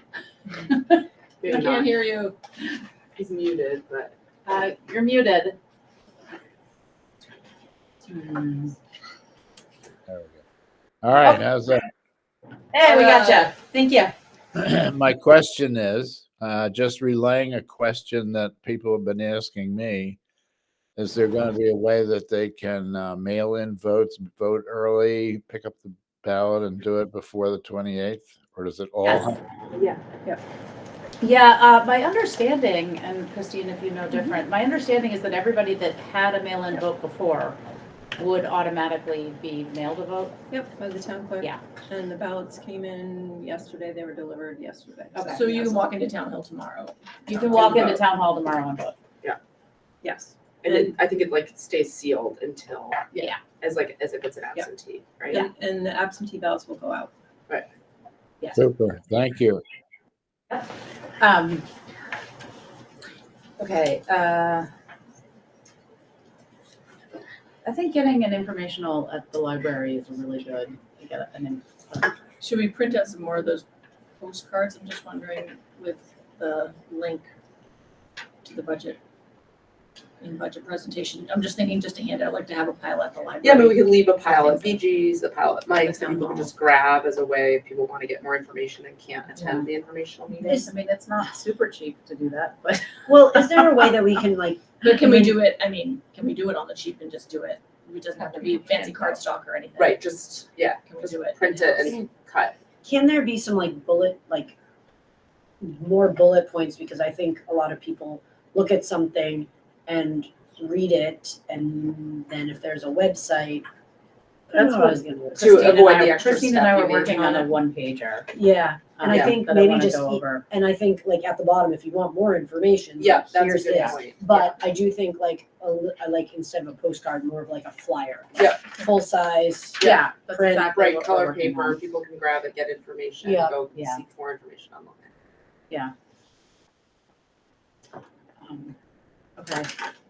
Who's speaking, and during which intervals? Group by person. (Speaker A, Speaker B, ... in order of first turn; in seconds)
Speaker A: 0.7-1.0, 4.4-5.6, 8.0-8.7, 12.7-14.1, 31.2-37.6, 38.2-40.4, 45.1-45.4, 47.3-48.9, 61.2-61.6, 63.6-64.7, 67.6-72.1, 90.4-93.9, 114.5-118.3, 119.0-120.4, 129.8-131.8, 133.7-134.0, 138.4-138.7, 139.4-139.7
Speaker B: 1.4-2.2, 3.1-4.1, 47.3-48.0, 50.6-55.4, 83.4-90.6, 99.8-102.5, 115.4-117.5, 119.1-119.4, 123.0-124.5, 128.3-128.7, 129.8-130.1, 130.7-135.1
Speaker C: 10.1-10.4, 11.0-11.8, 14.5-20.2, 21.0-29.4, 58.5-59.6
Speaker D: 40.5-45.9, 50.0-50.9, 55.3-57.1
Speaker E: 45.3-47.6, 72.4-73.6, 74.2-77.2, 78.4-79.0, 80.2-84.8, 85.8-86.5, 94.8-100.1, 100.8-102.0
Speaker F: 93.1-95.4, 102.8-104.5, 105.6-113.6, 114.5-115.8, 118.3-130.8, 133.2-133.6